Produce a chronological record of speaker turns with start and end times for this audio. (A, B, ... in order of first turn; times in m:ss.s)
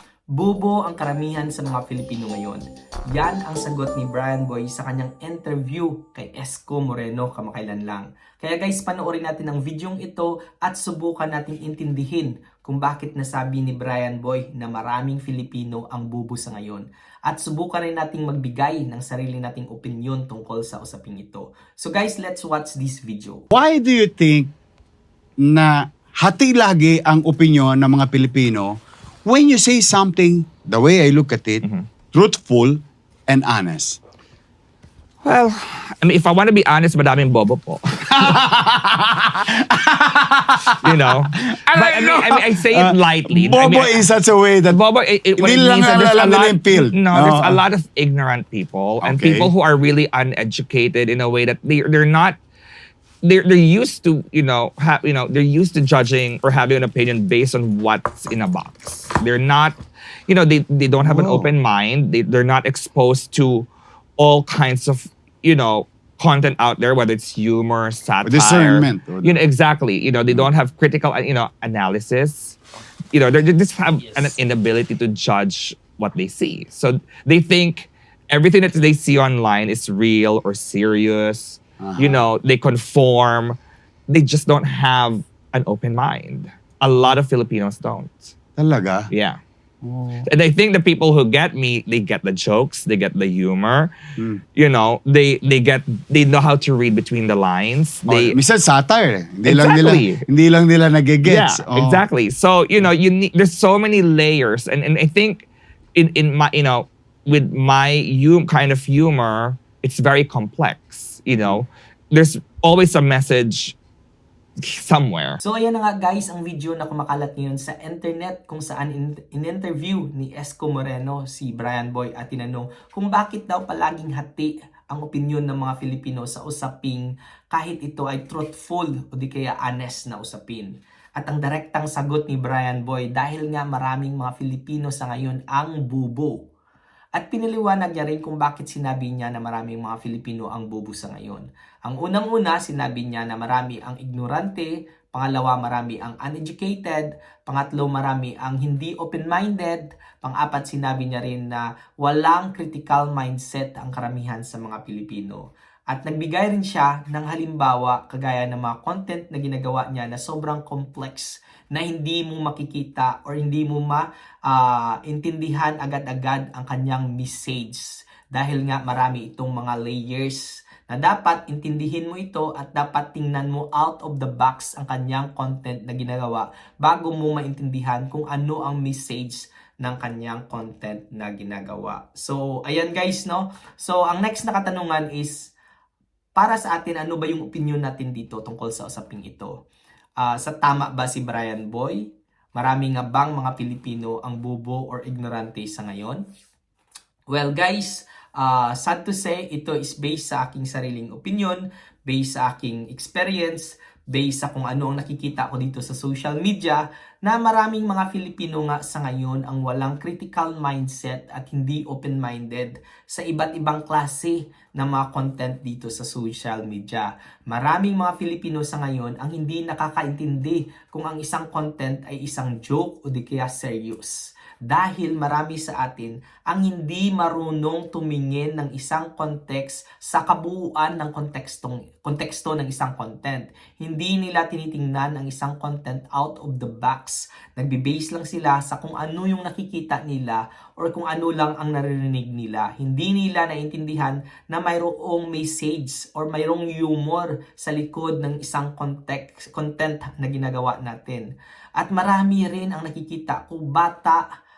0:00.4-0:23.4 A
0:23.5-0:24.5 B
0:25.4-0:34.0 B
0:35.2-0:38.4 C
0:38.1-0:44.8 B
0:40.8-0:44.0 C
0:44.7-0:52.4 C
0:45.4-0:47.6 B
0:49.0-0:49.5 B
0:53.2-1:12.6 C
1:01.0-1:01.5 B
1:08.2-1:09.4 B
1:13.1-1:23.6 C
1:21.8-1:22.3 B
1:24.1-1:28.3 C
1:28.6-1:29.1 B
1:29.1-1:29.4 C
1:29.8-1:30.3 B
1:30.3-1:33.9 C
1:34.6-1:38.4 C
1:38.1-1:42.0 B
1:39.5-1:40.2 C
1:41.2-1:53.8 C
1:54.6-1:55.4 C
1:55.4-2:16.4 A
2:17.2-3:05.5 A
3:06.4-3:09.5 A
3:10.2-3:12.0 A
3:12.6-3:16.2 A
3:17.3-4:11.2 A
4:11.8-4:14.2 A